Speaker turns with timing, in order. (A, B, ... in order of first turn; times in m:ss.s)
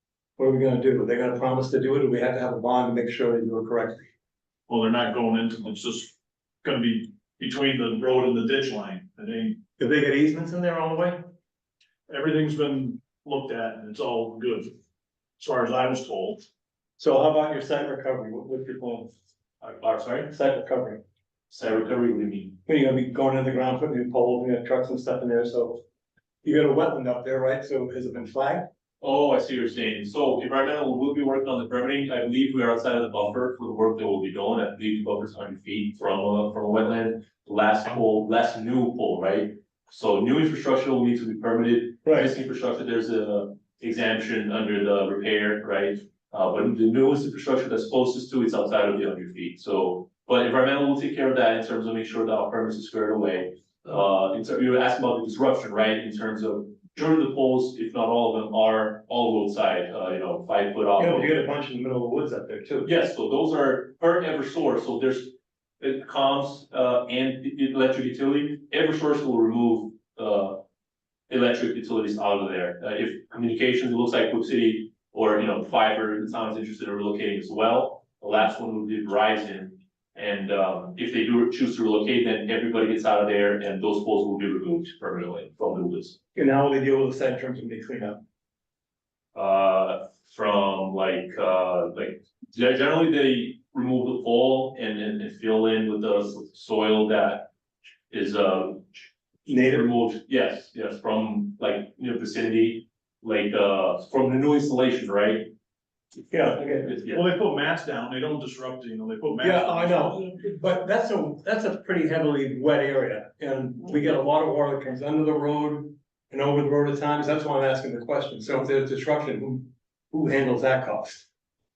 0:00.4-0:04.0 A
0:04.7-0:09.6 B
0:09.8-0:11.2 A
0:12.1-0:14.7 B
0:15.4-0:16.5 B
0:17.0-0:19.1 A
0:19.6-0:20.3 C
0:20.3-0:21.0 A
0:21.5-0:22.6 C
0:22.7-0:25.8 A
0:26.4-0:28.6 A
0:29.0-1:01.4 C
0:42.0-0:42.3 A
1:01.0-1:02.9 A
1:02.8-1:10.6 C
1:11.3-1:26.2 C
1:26.4-1:28.2 A
1:29.3-1:37.5 C
1:38.1-1:45.5 C
1:39.5-1:39.9 A
1:46.3-1:46.9 A
1:46.5-1:47.2 C
1:47.1-1:50.4 B
1:49.4-2:01.2 A